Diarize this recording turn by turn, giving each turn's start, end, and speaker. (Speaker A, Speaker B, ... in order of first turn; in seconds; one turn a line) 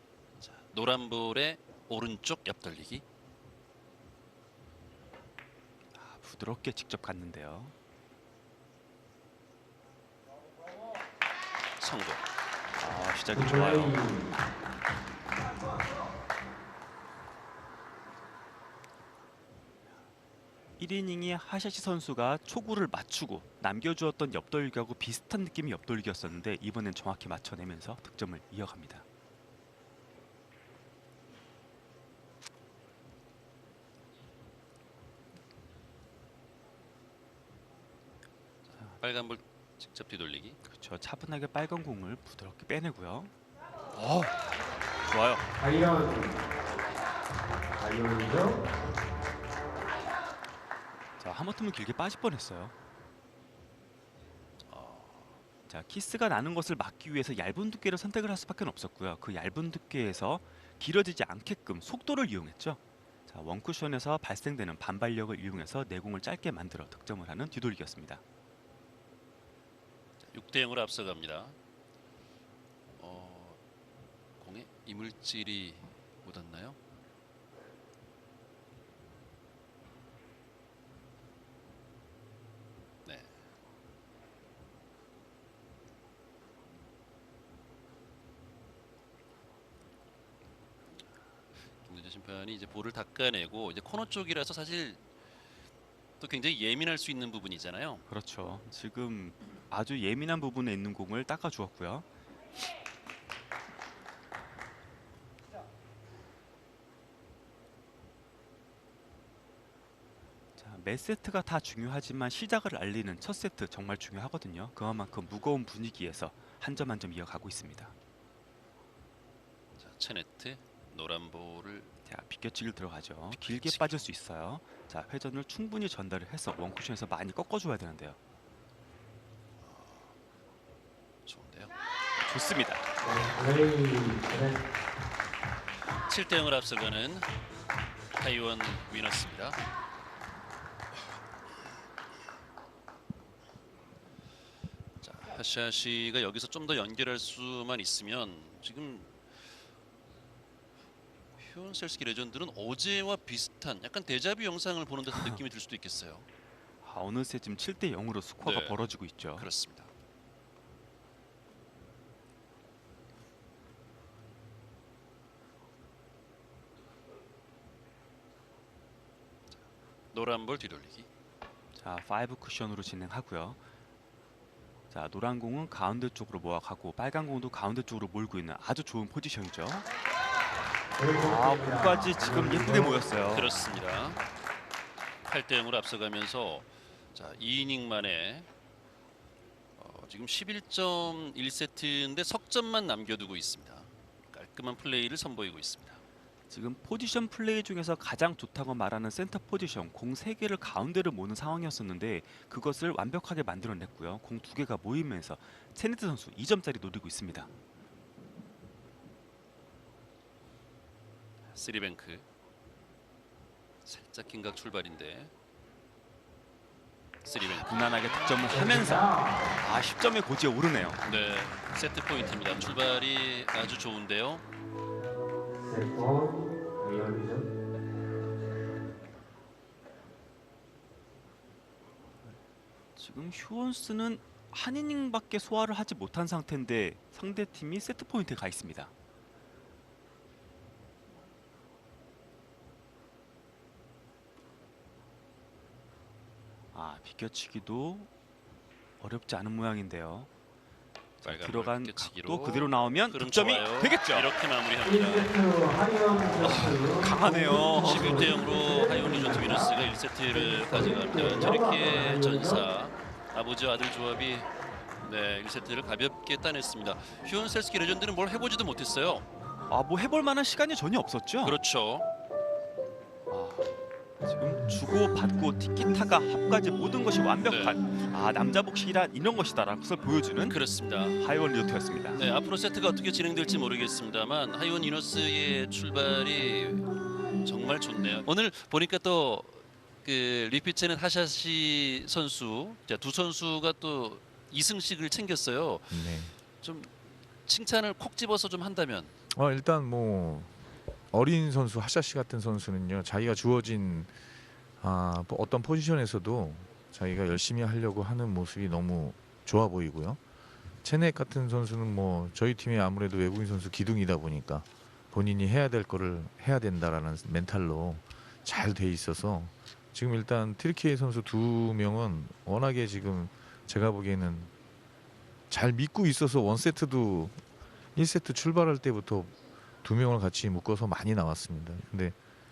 Speaker A: 0.4-3.0
Speaker B: 6.0-7.7
Speaker A: 11.8-12.2
Speaker B: 12.8-14.2
Speaker C: 13.3-14.3
Speaker B: 20.8-29.0
Speaker A: 38.7-40.6
Speaker B: 40.6-43.3
Speaker B: 44.0-44.4
Speaker B: 45.1-45.5
Speaker C: 45.6-46.4
Speaker C: 47.8-48.6
Speaker B: 51.2-52.7
Speaker A: 54.7-55.4
Speaker B: 55.7-68.2
Speaker A: 70.2-71.6
Speaker A: 73.0-73.6
Speaker A: 74.4-76.8
Speaker A: 83.0-83.4
Speaker A: 91.8-95.0
Speaker A: 96.2-98.0
Speaker B: 98.1-102.1
Speaker B: 110.6-117.9
Speaker A: 119.8-121.9
Speaker B: 122.1-128.2
Speaker A: 123.3-124.1
Speaker A: 129.6-130.2
Speaker A: 131.2-131.7
Speaker B: 132.2-132.8
Speaker C: 133.0-134.6
Speaker A: 136.0-137.3
Speaker A: 138.2-139.6
Speaker A: 145.0-149.2
Speaker A: 151.4-156.3
Speaker B: 156.8-159.5
Speaker A: 158.4-158.8
Speaker A: 159.3-159.9
Speaker A: 170.1-171.1
Speaker B: 171.8-173.6
Speaker B: 174.9-179.9
Speaker C: 181.0-183.1
Speaker B: 181.2-183.5
Speaker A: 183.3-184.2
Speaker A: 185.3-188.5
Speaker A: 189.8-196.0
Speaker B: 196.5-207.5
Speaker A: 211.5-212.3
Speaker A: 213.8-215.3
Speaker A: 217.2-218.6
Speaker B: 217.6-221.0
Speaker C: 218.5-219.6
Speaker A: 221.0-224.4
Speaker C: 225.6-227.5
Speaker B: 233.0-238.9
Speaker B: 246.7-248.1
Speaker B: 249.0-250.3
Speaker B: 251.2-254.3
Speaker A: 251.2-255.3
Speaker C: 254.8-259.8
Speaker B: 256.4-258.3
Speaker A: 257.7-264.5
Speaker C: 260.3-262.7
Speaker A: 265.0-269.3
Speaker B: 269.7-271.6
Speaker A: 271.4-272.1
Speaker B: 273.3-280.6
Speaker A: 277.4-277.8
Speaker A: 280.4-281.2
Speaker B: 281.2-282.2
Speaker A: 282.1-286.9
Speaker A: 287.4-299.1
Speaker D: 295.9-296.4
Speaker D: 299.3-300.5
Speaker D: 301.1-304.1
Speaker D: 304.8-310.2
Speaker D: 310.8-324.5
Speaker D: 325.5-327.4
Speaker D: 327.9-332.2